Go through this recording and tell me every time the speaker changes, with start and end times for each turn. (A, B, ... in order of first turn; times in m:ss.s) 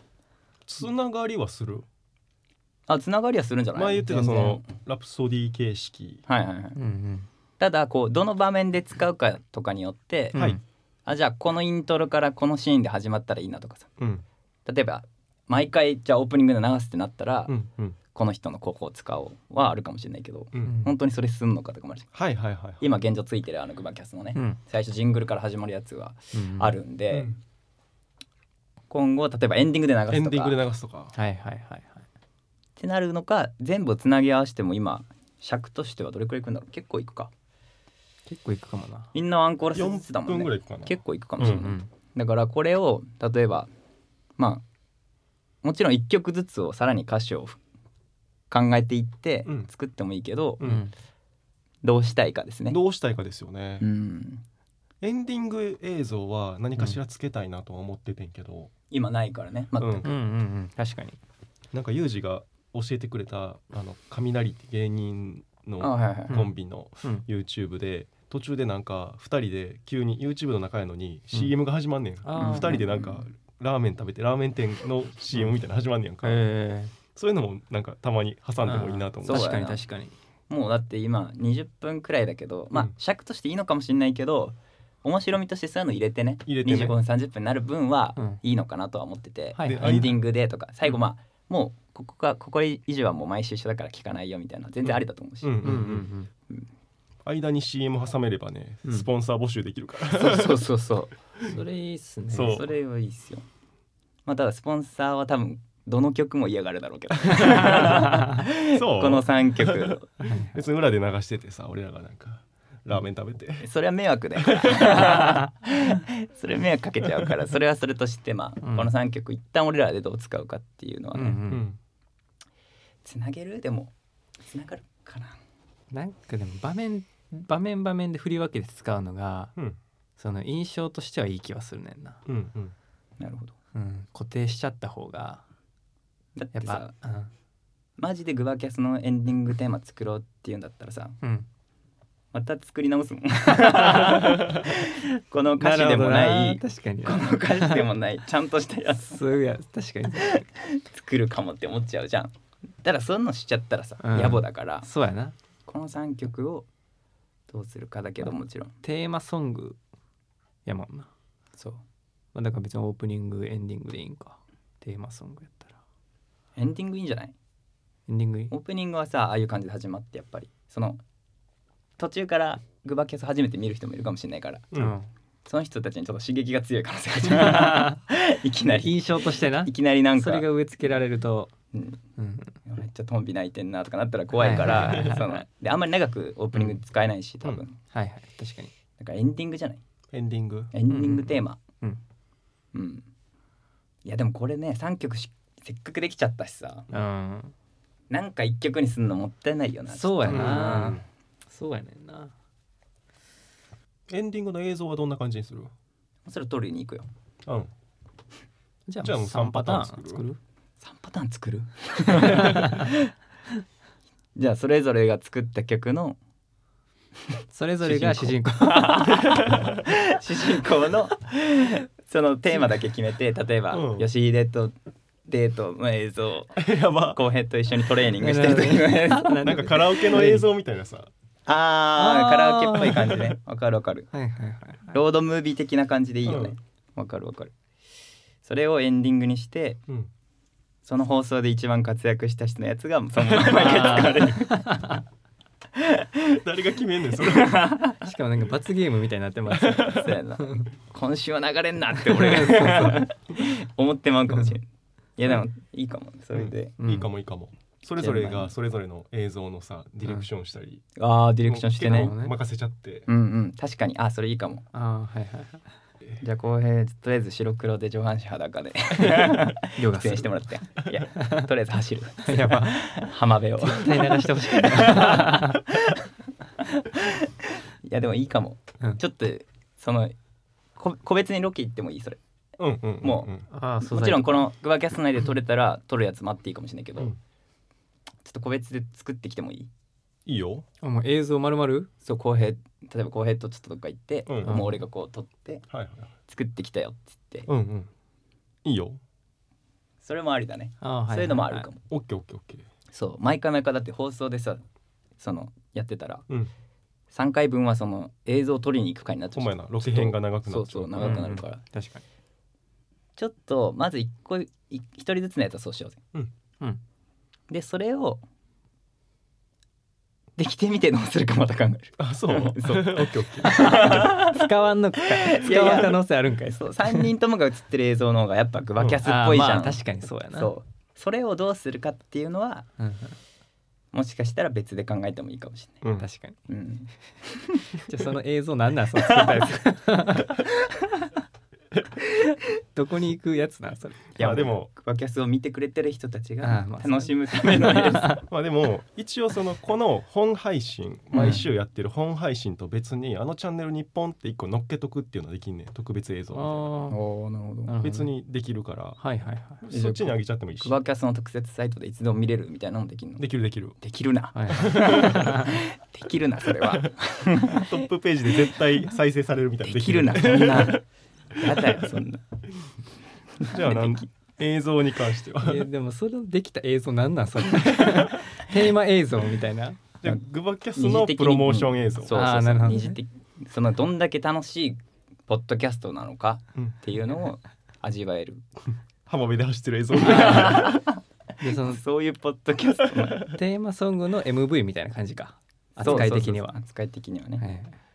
0:00.6-0:01.8 A
0:02.9-0:04.6 B
0:03.7-0:06.2 A
0:06.3-0:06.8 B
0:06.8-0:07.3 C
0:07.6-0:10.5 B
0:10.3-0:10.6 C
0:10.3-0:10.6 A
0:11.0-0:13.9 B
0:14.0-0:14.2 A
0:14.6-0:17.6 B
0:17.5-0:18.0 A
0:18.1-0:22.1 B
0:20.6-0:20.9 C
0:22.1-0:22.8 A
0:22.8-0:27.4 B
0:26.3-0:26.8 C
0:27.1-0:27.4 A
0:28.9-0:30.6 B
0:30.1-0:31.1 A
0:31.2-0:32.0 C
0:32.8-0:37.3 B
0:38.2-0:39.1 C
0:39.1-0:43.7 B
0:39.7-0:41.7 A
0:41.4-0:41.9 C
0:44.4-0:44.6 B
0:45.6-0:47.6 B
0:48.5-0:50.6 B
0:50.6-0:50.9 A
0:50.6-0:50.9 C
0:51.8-0:52.8 B
0:52.7-0:53.8 A
0:53.8-0:54.4 B
0:55.0-0:58.7 A
0:58.9-1:00.1 B
0:59.8-1:00.1 A
1:00.0-1:01.2 C
1:01.7-1:16.4 A
1:05.8-1:06.4 B
1:12.2-1:12.9 C
1:12.4-1:13.2 B
1:16.2-1:16.9 C
1:17.1-1:19.6 A
1:18.6-1:20.1 C
1:19.2-1:19.8 B
1:20.5-1:35.8 B
1:26.4-1:26.9 A
1:29.6-1:30.1 C
1:29.6-1:30.1 A
1:34.8-1:36.1 A
1:35.6-1:36.3 C
1:37.2-1:40.6 A
1:40.2-1:42.6 C
1:40.2-1:41.1 B
1:42.3-1:42.7 A
1:42.4-1:43.4 B
1:44.2-1:50.1 B
1:47.3-1:48.1 A
1:48.7-1:53.7 A
1:50.2-1:50.5 C
1:53.6-2:01.4 B
1:54.4-1:55.0 A
1:58.6-1:58.9 C
2:01.1-2:01.7 C
2:01.5-2:01.8 A
2:03.0-2:03.9 B
2:04.4-2:05.4 B
2:05.9-2:09.6 C
2:10.2-2:12.2 C
2:12.2-2:12.7 A
2:13.2-2:13.5 B
2:13.7-2:15.4 C
2:16.4-2:16.9 B
2:16.6-2:17.3 C
2:18.0-2:21.2 B
2:22.3-2:29.3 B
2:24.0-2:24.5 C
2:25.6-2:27.8 C
2:29.0-2:30.4 C
2:30.2-2:34.9 B
2:34.0-2:35.3 C
2:35.7-2:36.7 B
2:37.5-2:38.7 B
2:38.8-2:39.8 C
2:40.6-2:41.1 C
2:41.6-2:41.8 B
2:42.3-2:45.8 C
2:46.6-2:47.3 B
2:48.1-2:48.5 C
2:48.5-2:51.0 B
2:52.0-2:54.6 B
2:54.7-2:55.1 C
2:55.4-3:00.5 B
2:57.3-2:58.0 C
2:58.7-3:01.5 C
3:01.7-3:02.0 B
3:02.2-3:02.6 C
3:02.6-3:07.8 B
3:04.4-3:05.4 C
3:04.6-3:05.2 A
3:07.8-3:08.7 C
3:09.0-3:09.8 B
3:10.1-3:10.7 A
3:10.7-3:11.6 B
3:10.9-3:12.0 C
3:12.7-3:13.1 B
3:14.0-3:16.9 B
3:16.9-3:17.5 C
3:18.1-3:21.0 B
3:19.9-3:22.3 C
3:20.3-3:21.0 A
3:24.1-3:25.7 A
3:26.2-3:27.1 B
3:27.4-3:27.7 A
3:28.9-3:30.4 C
3:29.0-3:30.2 A
3:30.8-3:32.9 B
3:32.2-3:32.9 C
3:34.4-3:36.2 B
3:37.5-3:39.3 C
3:37.8-3:44.7 B
3:39.3-3:39.8 A
3:43.7-3:44.1 A
3:45.3-3:49.4 B
3:46.6-3:47.2 A
3:48.2-3:50.5 C
3:49.4-3:51.1 A
3:51.4-3:54.1 B
3:52.0-3:53.4 C
3:54.1-3:55.0 C
3:54.9-3:57.5 B
3:56.2-3:56.5 A
3:58.4-3:59.8 B
4:00.8-4:04.8 B
4:03.4-4:05.0 C
4:05.8-4:06.1 B
4:06.3-4:07.8 A
4:07.3-4:08.0 B
4:08.0-4:10.6 C
4:09.5-4:10.0 A
4:09.8-4:14.6 B
4:12.0-4:13.1 C
4:15.2-4:16.8 B
4:16.3-4:20.8 A
4:16.8-4:17.1 C
4:18.0-4:18.5 B
4:21.0-4:22.1 B
4:21.4-4:23.1 A
4:21.8-4:22.4 C
4:23.1-4:24.6 B
4:24.7-4:25.6 C
4:26.2-4:36.0 B
4:29.1-4:30.5 C
4:31.2-4:31.5 C
4:32.2-4:32.9 C
4:33.6-4:35.6 C
4:36.8-4:40.2 B
4:40.8-4:42.2 B
4:42.6-4:43.5 A
4:43.0-4:47.1 B
4:43.5-4:44.5 C
4:48.2-4:49.7 B
4:50.2-4:50.6 A
4:50.8-4:51.9 C
4:52.0-4:55.7 B
4:54.3-4:54.6 A
4:54.4-4:54.8 C
4:55.7-4:56.1 A
4:56.3-4:57.5 B
4:57.5-4:57.9 A
4:58.6-4:59.0 A
5:00.0-5:01.8 B
5:00.8-5:01.7 C
5:01.9-5:02.6 A
5:02.9-5:04.6 B
5:05.2-5:06.2 B
5:07.1-5:11.6 B
5:09.3-5:11.3 A
5:11.0-5:12.0 C
5:13.2-5:16.0 B
5:17.5-5:18.2 B
5:20.4-5:24.5 B
5:22.0-5:24.2 A
5:23.7-5:27.1 C
5:25.0-5:32.7 B
5:29.0-5:30.5 C
5:32.8-5:33.1 C
5:33.9-5:35.8 B
5:35.8-5:36.1 A
5:36.0-5:36.4 C
5:36.5-5:37.6 B
5:37.9-5:40.4 C
5:39.0-5:39.4 B
5:42.1-5:44.1 C
5:44.2-5:48.2 B
5:44.2-5:44.7 A
5:46.4-5:48.2 C
5:48.2-5:56.7 A
5:51.1-5:51.4 B
5:56.3-5:57.0 C
5:56.9-5:57.8 B
5:57.7-5:58.1 C
5:57.8-5:59.0 A
5:59.0-5:59.6 C
5:59.6-6:00.8 A
5:59.7-6:07.7 B
6:03.2-6:03.8 A
6:04.3-6:05.5 C
6:04.5-6:05.2 A
6:06.6-6:06.9 A
6:07.5-6:10.8 A
6:09.6-6:10.8 B
6:11.3-6:12.2 B
6:11.5-6:11.8 A
6:13.4-6:14.0 B
6:13.5-6:15.7 A
6:15.4-6:19.8 C
6:17.7-6:18.1 A
6:20.0-6:22.2 A
6:20.8-6:28.4 B
6:22.1-6:23.0 C
6:29.1-6:30.8 A
6:30.0-6:30.8 B
6:30.1-6:30.6 C
6:31.4-6:31.8 C
6:31.4-6:33.4 B
6:33.2-6:36.5 C
6:35.8-6:37.4 B
6:37.4-6:37.7 C